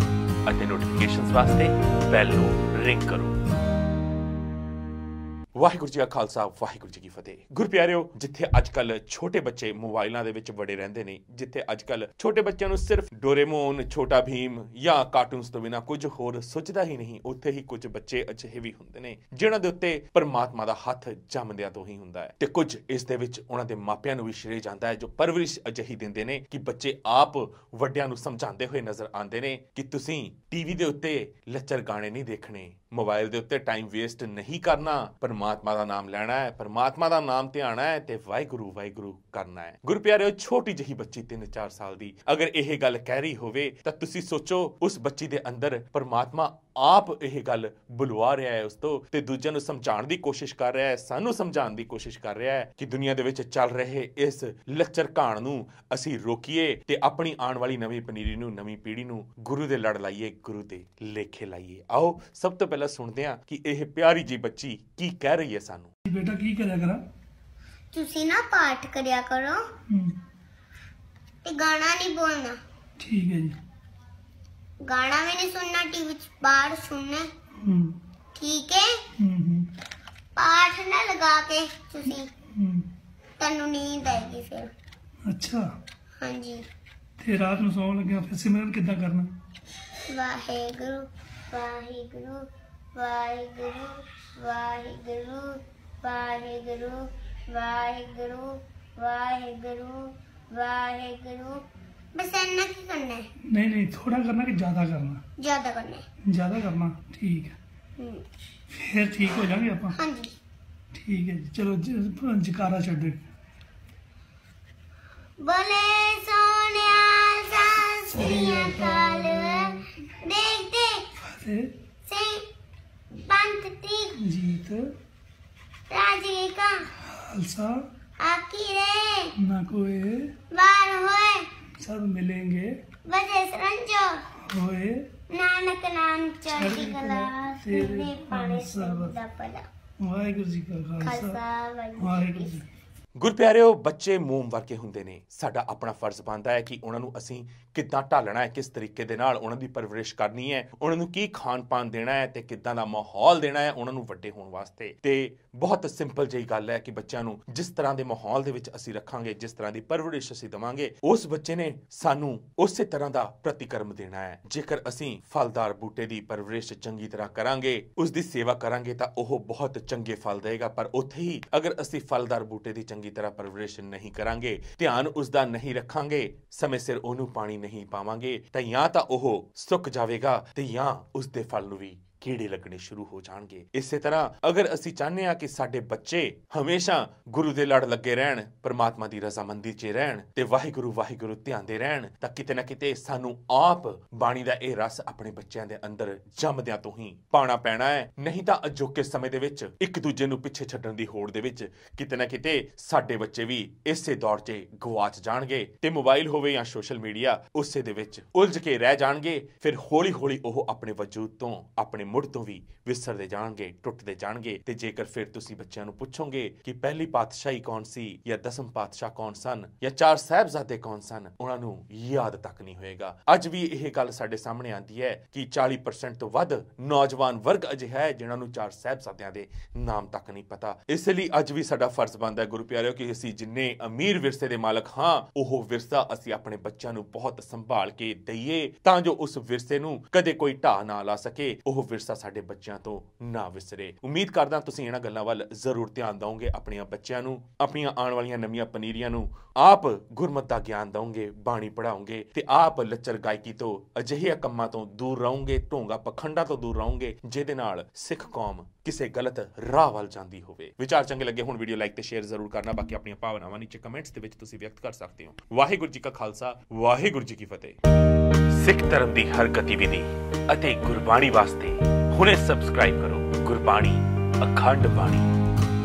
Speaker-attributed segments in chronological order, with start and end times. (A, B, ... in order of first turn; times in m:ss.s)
0:00.4-0:03.3 A
0:05.6-1:05.9 A
1:06.1-1:07.0 B
1:07.9-1:09.6 C
1:09.9-1:10.2 B
1:11.4-1:12.6 C
1:13.0-1:13.6 B
1:14.8-1:17.3 C
1:17.6-1:18.0 B
1:18.4-1:19.0 C
1:19.2-1:19.7 B
1:20.4-1:22.3 C
1:22.5-1:22.9 B
1:23.4-1:24.7 C
1:25.2-1:25.7 B
1:26.2-1:26.7 C
1:27.2-1:29.3 B
1:30.1-1:41.6 C
1:42.2-1:43.3 C
1:43.5-1:45.2 B
1:45.4-1:46.0 C
1:46.2-1:47.6 B
1:48.0-1:48.2 C
1:48.7-1:50.0 B
1:50.0-1:50.3 C
1:50.9-1:53.3 B
1:55.4-2:01.0 C
1:58.1-1:59.8 B
2:01.2-2:01.7 B
2:02.1-2:02.4 C
2:03.2-2:04.2 C
2:04.2-2:04.9 B
2:05.9-2:06.9 C
2:07.0-2:07.8 B
2:08.2-2:09.3 C
2:09.4-2:10.3 B
2:10.5-2:11.5 C
2:11.8-2:12.8 B
2:13.1-2:14.2 C
2:14.4-2:15.0 B
2:15.3-2:19.7 C
2:16.5-2:19.1 B
2:20.0-2:21.4 B
2:21.0-2:22.5 C
2:22.0-2:22.7 B
2:23.2-4:27.8 A
4:28.5-4:35.3 A